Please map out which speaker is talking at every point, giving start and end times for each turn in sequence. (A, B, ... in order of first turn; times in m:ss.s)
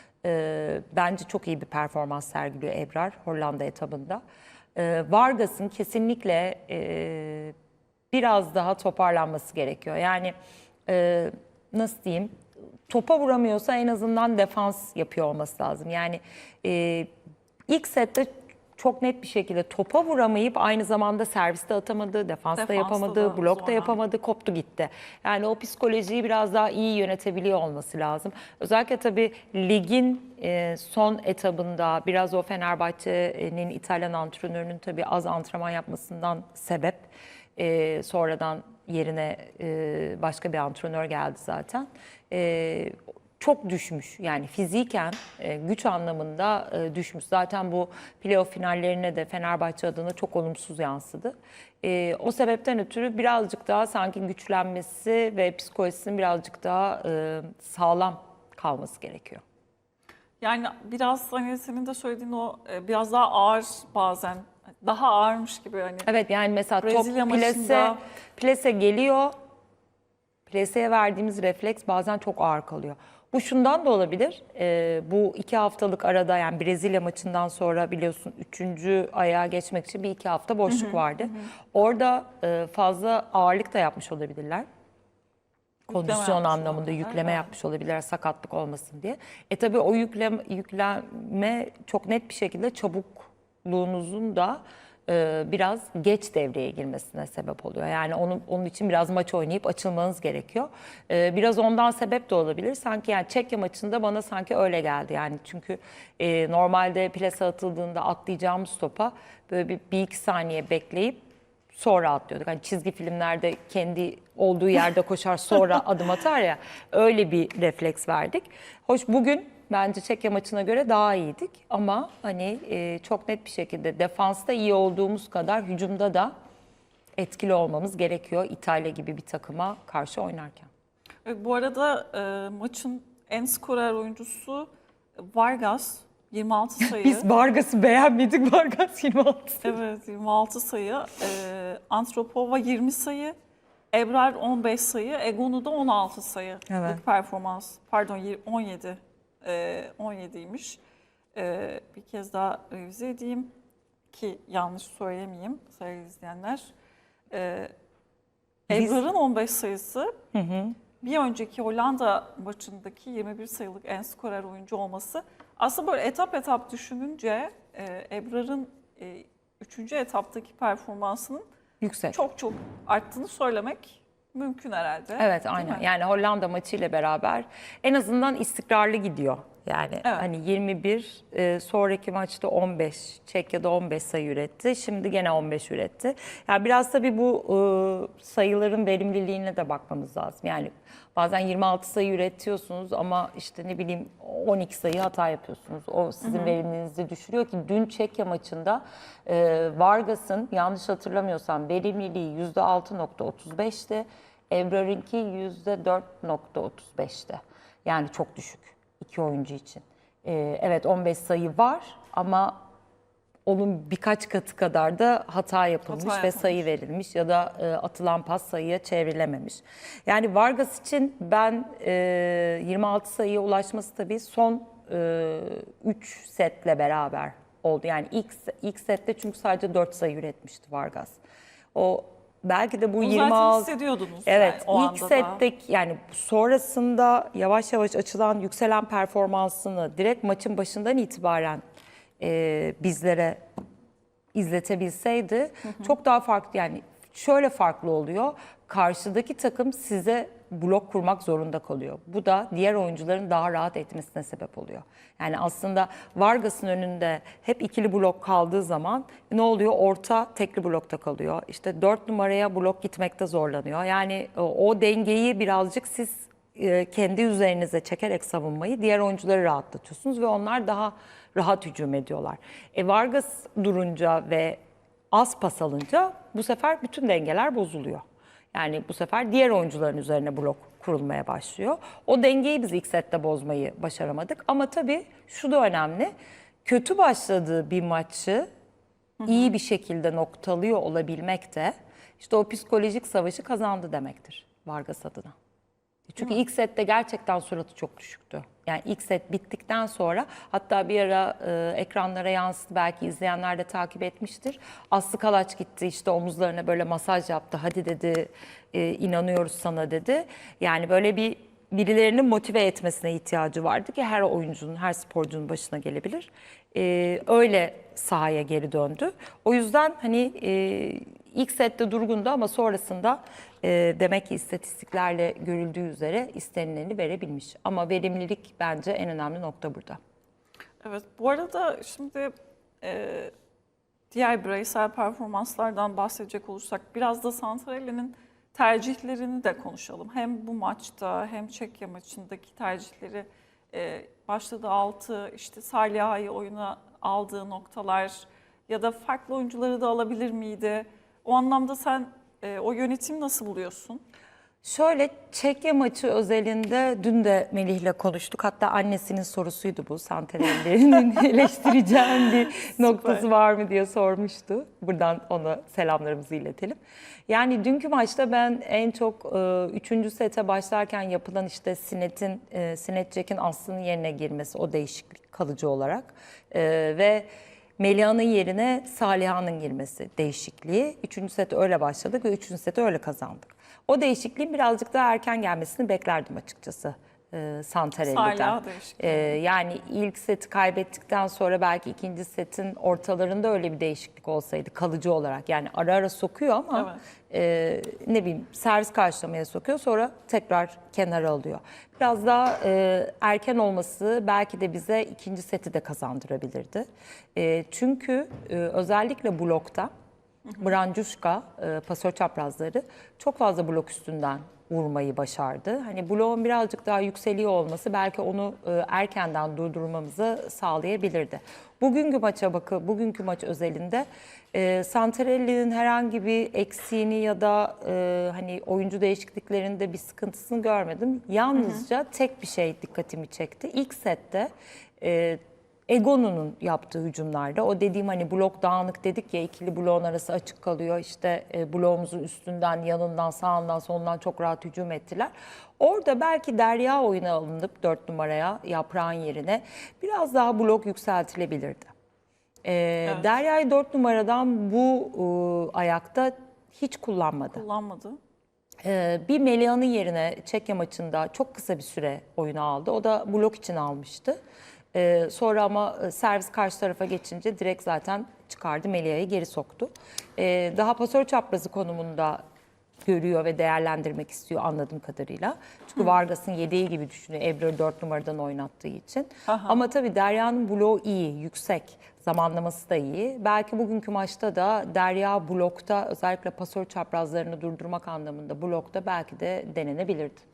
0:00.2-0:04.2 A
0:04.7-0:07.5 A
0:08.1-0:10.3 A
0:10.9-0:12.3 A
0:12.9-0:17.1 A
0:17.7-0:59.4 A
0:22.5-0:24.0 B
1:00.4-1:06.1 B
1:06.0-1:09.3 A
1:06.8-1:08.0 B
1:10.5-1:24.6 A
1:20.7-1:21.5 B
1:25.9-1:27.5 B
1:25.9-2:06.3 A
2:07.2-2:10.7 A
2:11.2-2:17.2 B
2:16.8-2:19.8 A
2:19.6-2:23.3 B
2:23.9-2:30.8 B
2:26.7-2:27.0 A
2:31.3-2:33.5 B
2:34.1-2:36.7 B
2:37.3-2:37.7 B
2:38.7-2:40.2 B
2:38.7-2:39.0 A
2:40.3-2:40.8 A
2:41.0-2:51.4 B
2:51.8-2:52.2 A
2:52.1-2:55.8 B
2:55.2-3:32.6 A
3:16.2-3:16.6 B
3:33.4-3:51.2 A
3:35.9-3:36.7 B
3:51.7-3:53.7 A
3:53.0-3:55.4 B
3:54.2-4:01.6 A
4:02.2-4:03.4 A
4:04.3-4:34.6 A
4:05.6-4:05.9 B
4:35.1-4:46.1 A
4:46.6-4:48.4 A
4:49.2-4:49.5 B
4:49.2-4:55.3 A
4:56.1-5:30.0 A
5:30.8-5:33.3 B
5:34.1-5:54.0 B
5:54.6-6:17.2 A
6:02.5-6:03.2 B
6:17.8-6:49.9 A
6:28.0-6:29.4 B
6:36.7-6:37.0 B
6:50.6-7:31.9 A
7:11.5-7:11.8 B
7:32.6-7:37.6 A
7:37.5-7:38.2 B
7:38.8-7:44.4 A
7:44.9-7:52.4 A
7:53.0-8:10.4 A
7:59.5-7:59.8 B